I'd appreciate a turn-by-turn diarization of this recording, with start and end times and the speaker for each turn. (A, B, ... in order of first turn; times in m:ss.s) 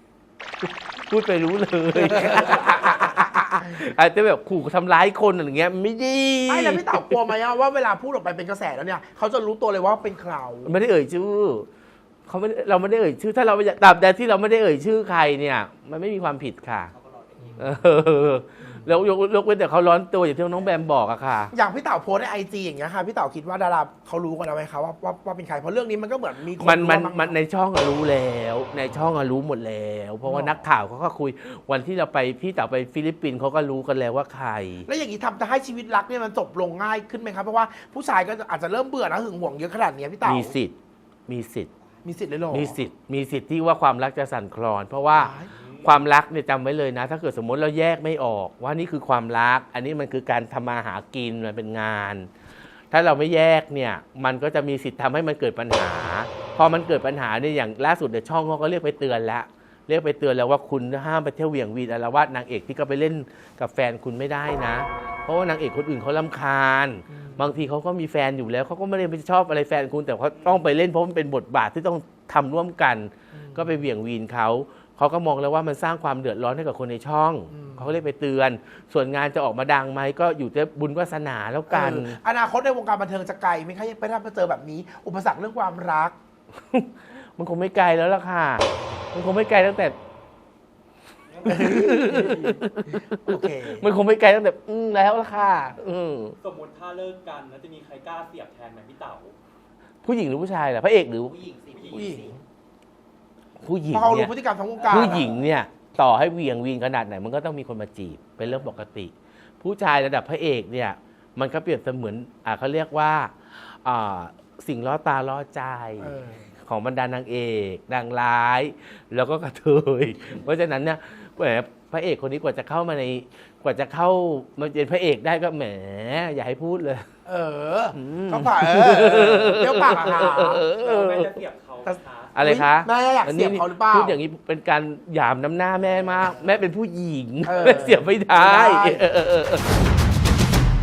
0:00.6-0:07.2 A
0:02.0-0:02.6 B
0:06.5-0:10.8 B
0:10.6-0:11.7 A
0:12.3-0:16.9 A
0:17.6-0:21.5 A
0:21.5-0:27.4 B
0:26.6-0:34.9 A
0:30.2-0:30.6 B
0:34.9-0:40.5 B
0:40.2-0:40.7 A
0:41.3-0:41.7 A
0:42.0-0:42.8 B
0:42.5-0:52.3 A
0:45.1-0:45.5 B
0:45.5-0:45.8 C
0:52.9-1:22.2 A
1:07.1-1:07.5 B
1:13.4-1:13.7 B
1:17.5-1:17.9 B
1:21.7-1:26.2 B
1:26.7-1:30.0 A
1:31.4-1:33.0 A
1:31.4-1:33.8 B
1:33.6-1:36.4 A
1:36.4-1:39.4 C
1:40.0-1:41.4 A
1:41.4-1:42.2 C
1:41.8-1:42.4 B
1:43.6-1:44.3 A
1:43.9-1:45.4 B
1:44.9-1:56.1 A
1:56.0-1:56.5 B
1:56.7-2:07.1 A
2:07.3-2:10.6 B
2:08.0-2:11.4 A
2:10.8-2:12.3 C
2:12.4-2:19.6 A
2:12.4-2:14.2 B
2:17.4-2:19.0 B